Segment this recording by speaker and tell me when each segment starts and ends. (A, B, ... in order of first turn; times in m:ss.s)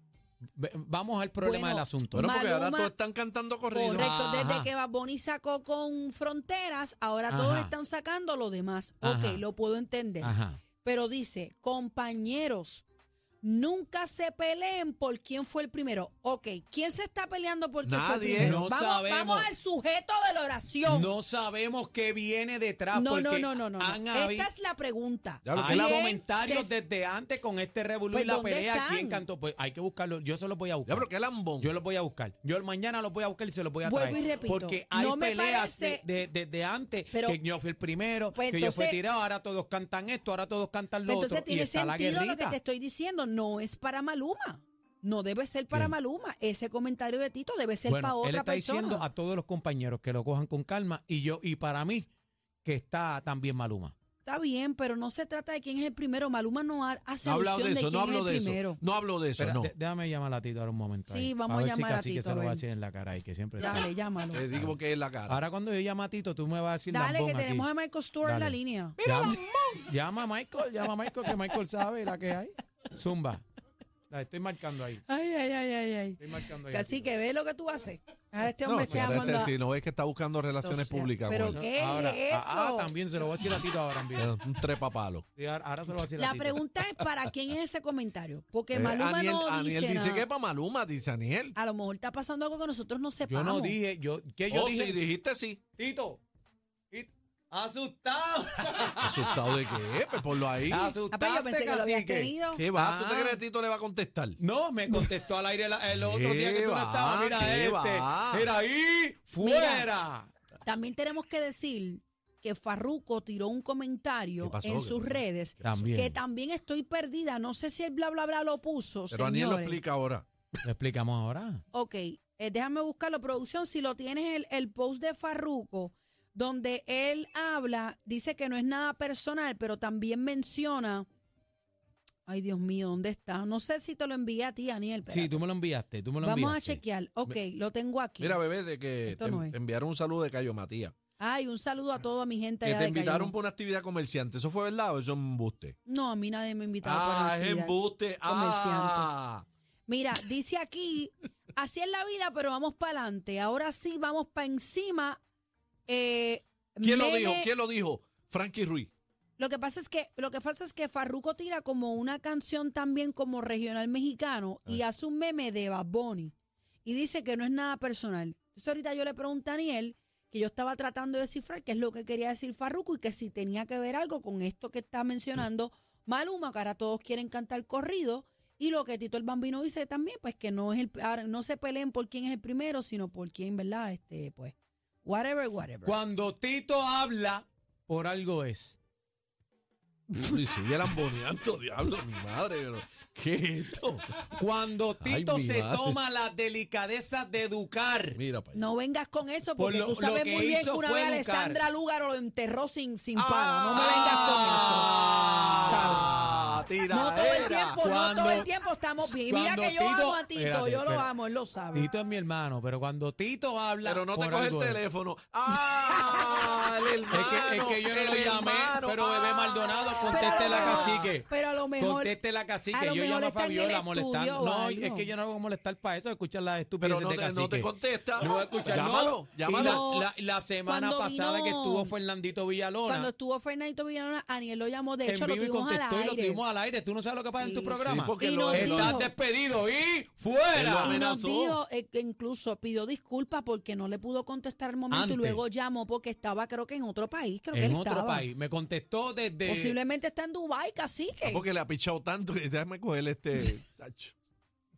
0:00.5-0:02.4 A
0:01.4-0:02.9 B
0:02.1-0:04.1 C
0:03.7-0:12.8 B
0:03.9-0:04.7 A
0:07.3-0:07.7 A
0:09.0-0:09.4 A
0:10.2-0:10.6 A
0:13.4-0:21.1 B
0:17.8-0:18.6 C
0:18.4-0:19.5 A
0:20.8-0:24.5 A
0:22.9-0:26.7 B
0:25.4-0:26.0 C
0:25.6-0:42.6 A
0:28.1-0:29.2 B
0:30.8-0:31.7 C
0:33.8-0:36.0 B
0:37.1-0:37.4 B
0:38.3-0:39.0 B
0:41.1-0:49.1 B
0:47.8-0:52.1 A
0:52.6-0:53.9 A
0:54.2-0:58.8 B
0:57.2-0:59.7 C
0:59.4-1:03.9 A
1:01.1-1:02.6 B
1:03.6-1:04.4 B
1:04.3-1:05.4 C
1:05.3-1:07.6 A
1:06.9-1:09.5 B
1:08.2-1:13.4 A
1:09.0-1:09.4 C
1:14.1-1:15.0 A
1:15.1-1:19.5 B
1:16.2-1:17.0 A
1:18.6-1:21.6 C
1:18.9-1:19.5 A
1:20.6-1:22.9 B
1:21.4-1:24.3 A
1:24.2-1:25.2 C
1:25.4-1:26.6 A
1:26.2-1:30.3 B
1:28.7-1:31.5 C
1:31.5-1:33.8 B
1:33.2-1:35.0 A
1:34.5-1:35.6 C
1:35.8-1:36.2 A
1:36.9-1:39.6 A
1:39.0-1:41.0 C
1:40.1-1:43.4 A
1:41.1-1:42.6 B
1:42.6-1:44.4 C
1:44.4-1:50.3 A
1:45.9-1:48.5 C
1:49.4-1:49.9 B
1:50.6-1:59.8 B
1:54.4-1:55.9 C
1:55.6-1:56.2 A
1:59.1-2:00.2 C
2:00.6-2:01.6 A
2:01.7-2:11.0 B
2:12.3-2:15.4 B
2:15.1-2:17.3 A
2:16.2-2:18.4 B
2:18.2-2:20.9 C
2:19.0-2:19.5 B
2:21.2-2:23.3 B
2:22.6-2:25.7 C
2:25.8-2:29.1 B
2:26.8-2:29.4 C
2:29.9-2:35.2 B
2:35.9-2:37.5 B
2:36.8-2:38.9 C
2:39.4-2:46.3 B
2:46.8-3:06.0 B
3:05.8-3:08.8 A
3:10.2-3:14.2 C
3:14.3-3:18.2 A
3:15.0-3:16.0 C
3:18.2-3:18.6 C
3:18.5-3:24.9 B
3:19.6-3:21.6 A
3:23.2-3:27.8 C
3:23.7-3:26.6 A
3:25.6-3:26.1 B
3:26.9-3:31.9 B
3:27.2-3:28.5 A
3:29.1-3:31.1 A
3:31.7-3:34.8 A
3:33.8-3:41.1 C
3:35.7-3:36.3 B
3:37.1-3:53.1 A
3:40.0-3:42.2 B
3:42.7-3:45.1 B
3:46.8-3:49.8 C
3:49.4-3:50.1 B
3:50.6-3:51.9 B
3:52.9-3:56.4 B
3:55.0-4:01.0 A
3:57.4-3:59.1 B
3:57.8-3:59.0 C
4:00.5-4:01.6 C
4:00.8-4:08.3 B
4:04.9-4:05.4 A
4:07.5-4:09.7 A
4:09.4-4:11.4 B
4:11.2-4:14.1 C